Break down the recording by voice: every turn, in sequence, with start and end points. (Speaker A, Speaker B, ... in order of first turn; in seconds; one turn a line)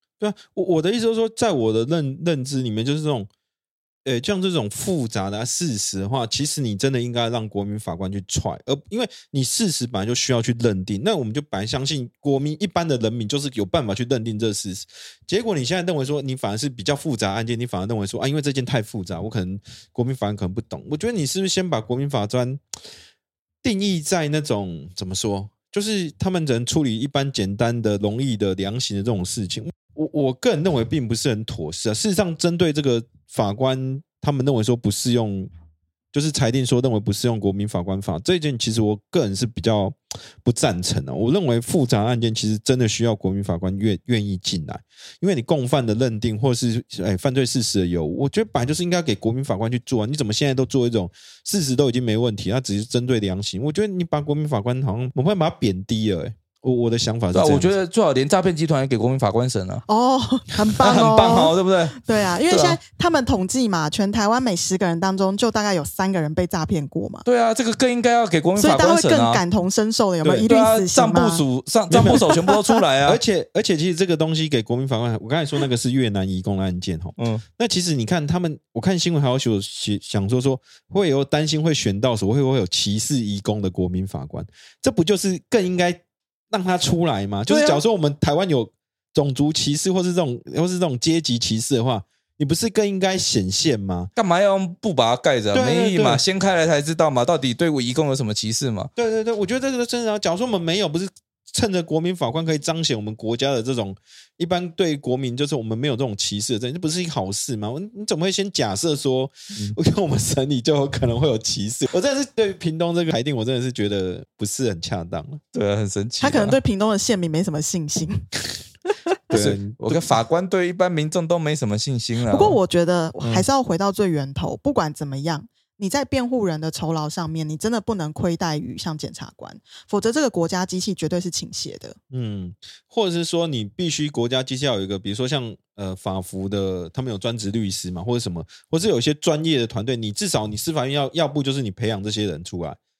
Speaker A: 0.2-3.3
Speaker A: 4.0-22.6
Speaker A: 23.6-35.5
Speaker A: 36.1-57.8
Speaker B: 57.3-59.9
Speaker C: 59.9-67.2
Speaker B: 60.7-62.8
Speaker B: 67.2-69.4
Speaker C: 68.6-71.4
Speaker B: 70.4-73.2
Speaker A: 71.9-72.3
Speaker C: 72.1-72.8
Speaker A: 73.0-94.1
Speaker B: 77.2-77.4
Speaker B: 87.5-87.8
Speaker B: 94.2-98.9
Speaker A: 95.5-96.2
Speaker A: 99.0-115.4
Speaker B: 115.5-116.6
Speaker C: 116.2-118.2
Speaker A: 119.3-120.2
Speaker B: 119.3-122.6
Speaker C: 122.2-132.0
Speaker A: 132.1-142.8